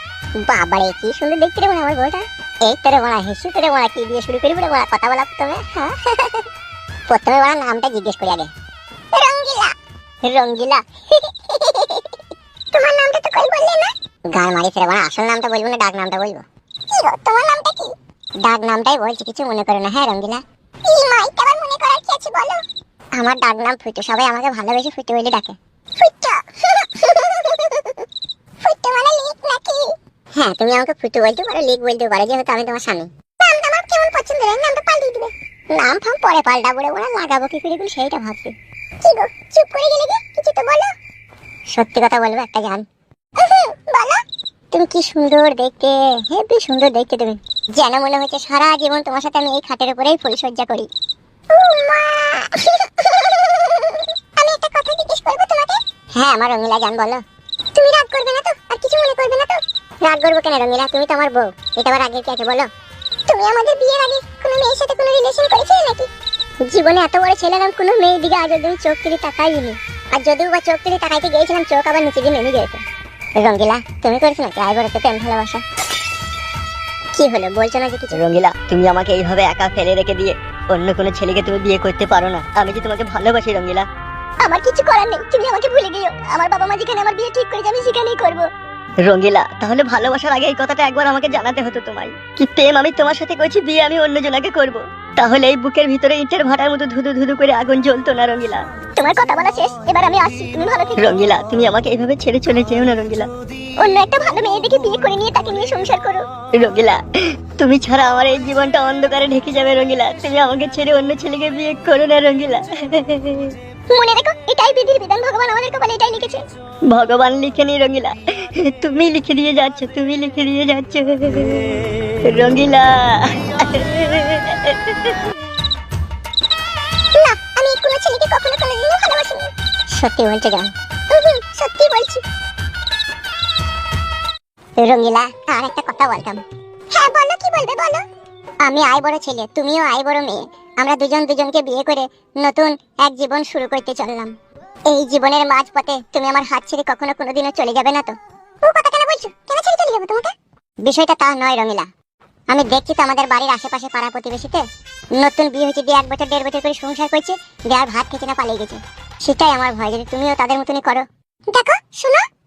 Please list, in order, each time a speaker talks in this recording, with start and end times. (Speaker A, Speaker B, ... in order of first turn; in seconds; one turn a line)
Speaker A: 0.4-6.5
Speaker A: 7.1-8.5
Speaker A: 9.1-12.2
Speaker A: 12.7-22.6
Speaker A: 23.1-28.1
Speaker A: 28.6-40.9
Speaker A: 41.7-42.8
Speaker A: 43.4-50.9
Speaker A: 51.5-57.2
Speaker A: 57.7-62.7
Speaker A: 63.3-66.1
Speaker A: 66.6-72.8
Speaker A: 73.4-75.6
Speaker A: 77.1-78.2
Speaker B: 78.1-83.9
Speaker A: 84.4-88.5
Speaker B: 89.0-98.6
Speaker A: 99.0-101.2
Speaker B: 101.0-103.3
Speaker A: 103.8-106.2
Speaker B: 106.6-113.5
Speaker A: 113.9-116.4
Speaker B: 116.9-125.2
Speaker A: 127.1-132.2
Speaker A: 134.8-138.0
Speaker A: 138.6-144.3
Speaker A: 144.9-151.9
Speaker A: 152.5-162.2